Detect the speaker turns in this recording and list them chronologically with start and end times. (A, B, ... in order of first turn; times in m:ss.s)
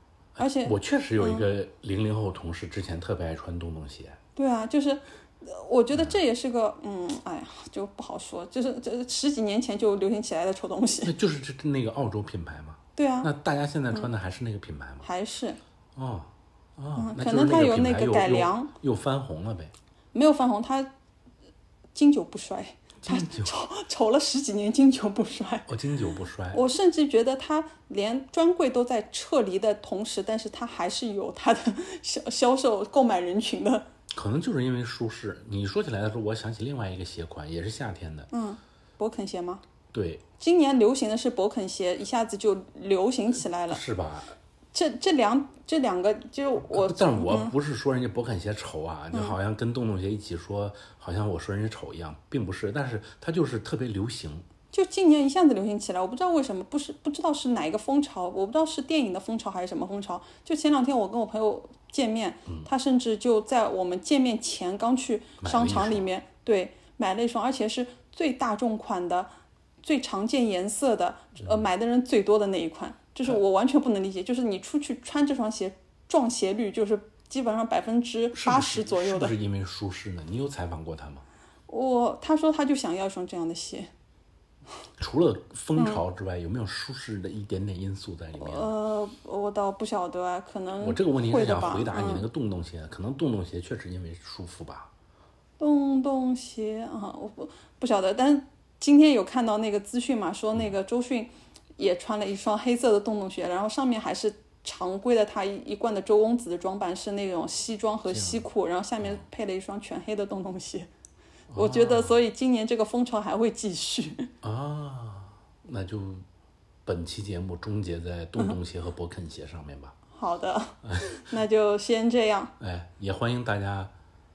0:00.4-0:04.2 A
0:00.4-0:01.5 B
0:04.4-0:11.1 B
0:11.0-0:15.1 A
0:13.0-0:13.3 B
0:15.0-0:15.6 B
0:16.0-0:19.7 A
0:17.0-0:18.7 B
0:20.1-0:20.9 B
0:22.0-0:25.7 B
0:23.0-0:23.5 A
0:25.7-0:26.6 A
0:26.5-0:33.9 B
0:34.1-0:38.3 A
0:38.3-0:39.6 B
0:39.9-0:40.2 A
0:40.4-0:43.8 B
0:43.7-0:44.4 A
0:44.7-0:47.5 B
0:46.7-0:54.5 A
0:54.7-1:09.3 B
1:05.4-1:06.1 A
1:09.8-1:19.4 B
1:18.3-1:21.2 A
1:21.7-1:23.9 B
1:25.0-1:28.7 A
1:25.8-1:26.0 B
1:28.4-1:32.2 B
1:30.8-1:34.9 A
1:35.6-1:50.9 B
1:48.1-1:48.4 A
1:51.5-1:52.2 A
1:51.5-1:54.3 B
1:54.4-1:56.3 A
1:56.9-2:00.0 A
2:00.2-2:02.5 B
2:00.8-2:01.3 A
2:02.6-2:03.9 A